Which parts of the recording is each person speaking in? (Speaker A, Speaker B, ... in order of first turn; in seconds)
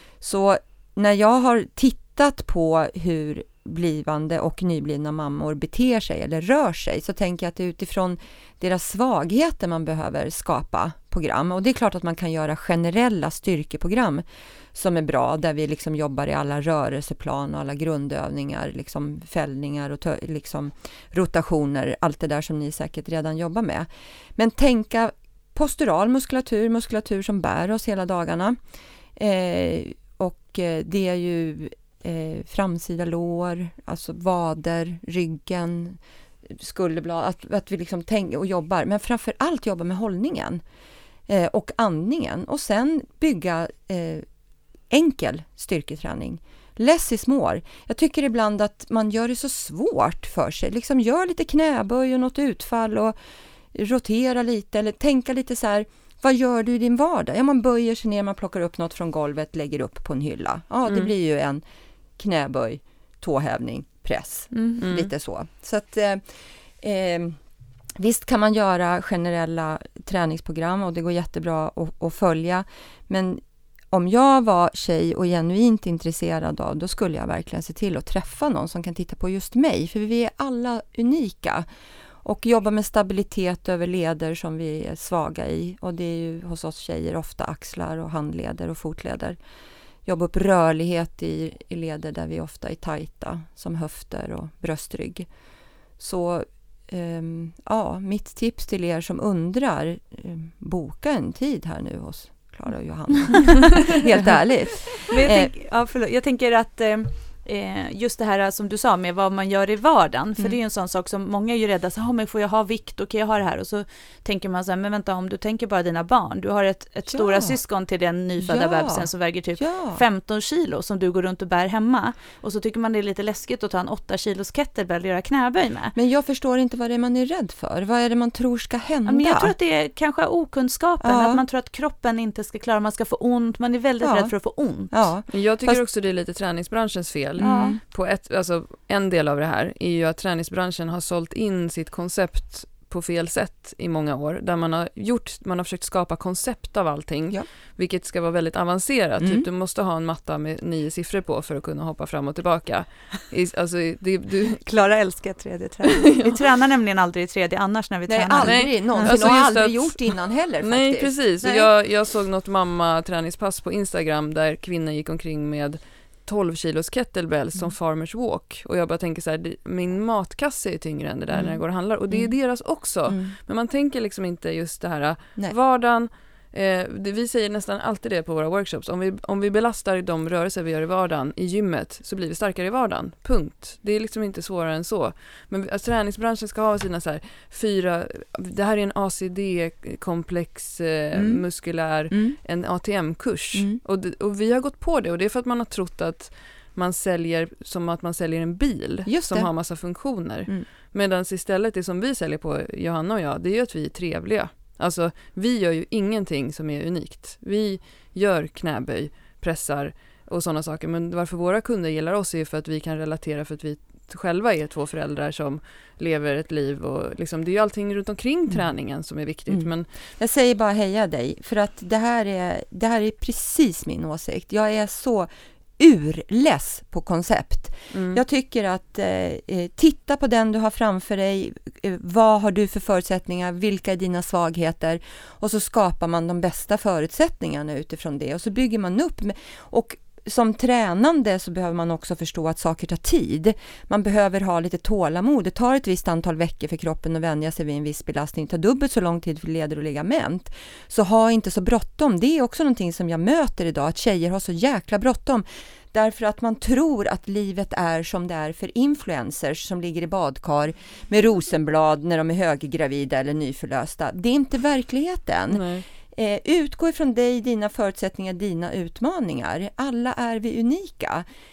Speaker A: 0.2-28.6, 29.1-40.6, 41.3-44.2, 44.9-53.1, 53.7-61.6, 62.2-67.4, 68.0-81.7, 82.2-89.4, 90.0-95.3, 96.0-105.5, 117.1-117.6, 118.4-120.0, 125.9-129.5, 131.0-131.4, 134.0-134.3, 134.9-135.8, 137.4-137.8, 149.2-149.4, 158.1-161.7, 171.3-173.3, 191.1-191.4, 192.1-192.4, 193.5-193.8, 199.1-199.7, 219.5-271.2
Speaker B: 64.5-64.8, 105.0-125.9, 129.1-134.9, 137.4-137.8, 154.6-159.3
Speaker C: 64.8-65.1, 135.3-154.6, 156.1-156.4, 158.4-219.9, 227.9-228.2, 265.5-265.9